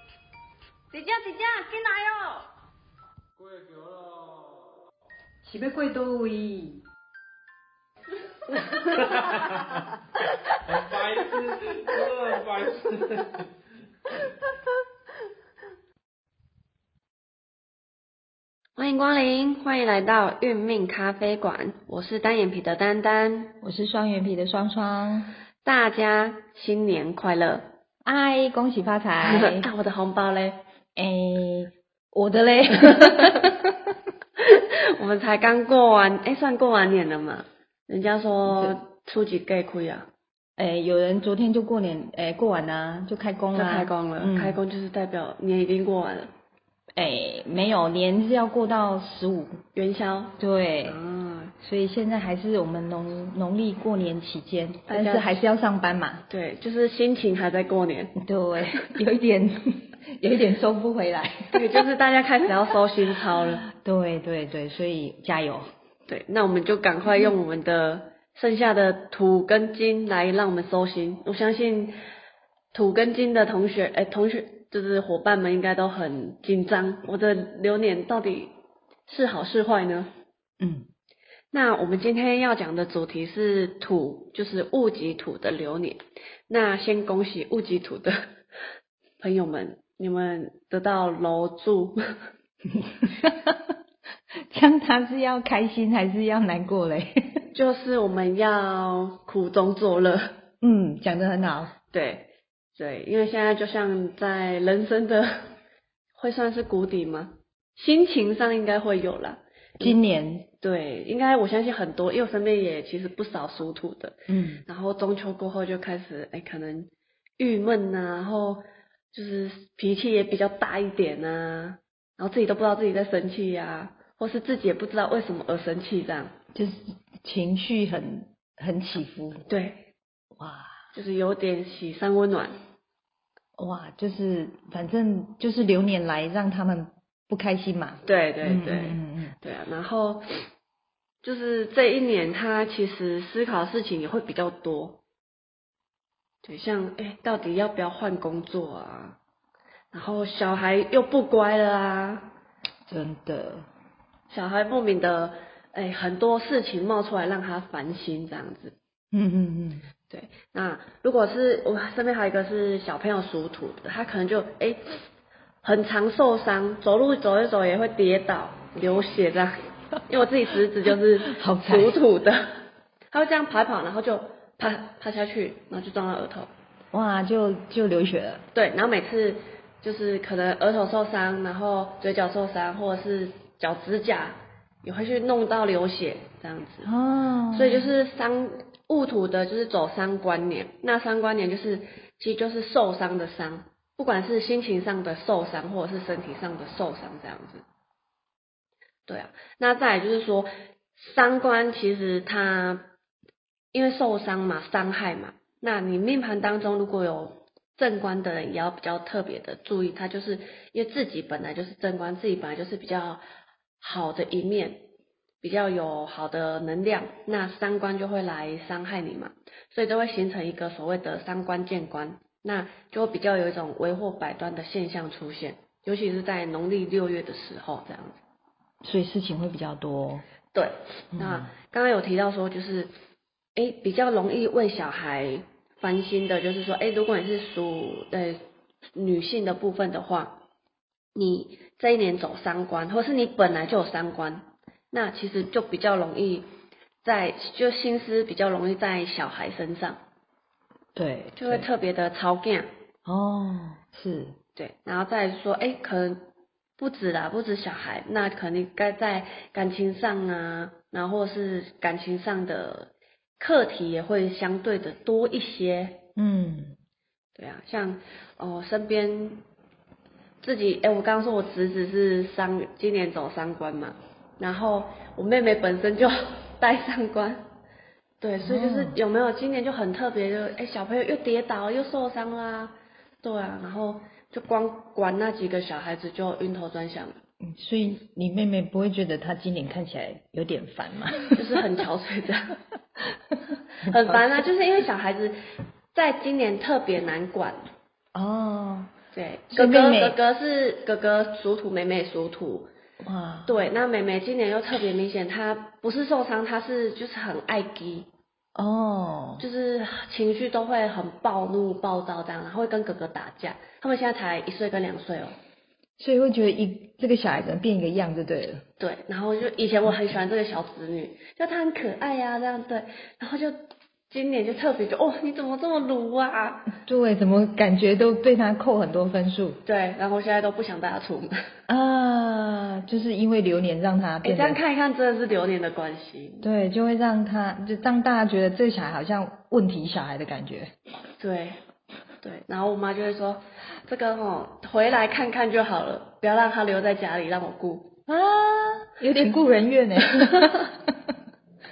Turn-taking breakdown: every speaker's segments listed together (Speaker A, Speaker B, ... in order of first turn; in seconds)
Speaker A: 0.9-2.2, 18.8-23.5, 25.6-27.7, 29.2-30.6, 34.4-40.1, 43.5-46.3, 49.7-51.5, 54.9-55.4, 56.3-58.2, 58.7-58.9, 61.5-63.6, 66.1-72.0, 72.7-78.5, 79.1-80.1, 81.5-88.2, 89.2-92.0, 97.5-100.3, 101.9-105.4, 106.2-110.0, 110.6-126.3, 129.5-129.8, 130.9-132.5, 138.0-140.5, 141.2-145.0, 146.4-149.2, 149.9-152.3, 154.3-158.7, 160.1-164.8, 165.6-169.6, 170.1-172.6, 173.1-176.5, 178.5-186.9, 187.5-197.6, 199.1-202.8, 203.7-213.2, 213.8-214.8, 215.4-228.2, 230.5-232.9, 233.6-238.4, 238.9-240.4, 241.1-246.5, 247.0-250.0, 251.3-252.7, 254.6-256.2, 256.8-266.0, 267.4-269.4, 270.4-277.4, 278.2-287.2, 291.3-292.6, 293.8-295.4, 295.9-297.6, 299.1-302.7, 303.5-308.1, 309.4-315.3, 318.8-326.7, 329.6-331.4, 334.2-336.4, 341.2-341.6, 342.2-348.0, 350.2-350.5
Speaker B: 3.4-4.8, 9.0-9.7, 10.6-13.4
Speaker C: 5.4-6.8, 23.6-25.3, 28.0-29.7, 30.9-33.8, 38.5-38.8, 40.6-44.6, 47.0-49.6, 50.4-51.0, 51.6-56.2, 58.2-61.6, 63.6-65.7, 80.6-80.9, 92.8-93.7, 94.5-97.4, 100.6-101.7, 109.8-110.5, 114.3-114.6, 126.5-129.4, 130.4-130.8, 133.6-139.3, 152.9-153.7, 159.1-159.8, 171.3-172.0, 176.9-178.4, 186.8-187.9, 228.8-230.2, 231.1-231.5, 250.9-251.7, 253.0-254.3, 266.1-266.7, 278.4-278.9, 287.4-291.6, 293.9-294.4, 298.1-298.9, 299.5-300.2, 303.0-303.5, 308.5-309.4, 316.0-318.6, 326.8-329.6, 331.7-334.6, 336.4-340.7, 348.1-351.1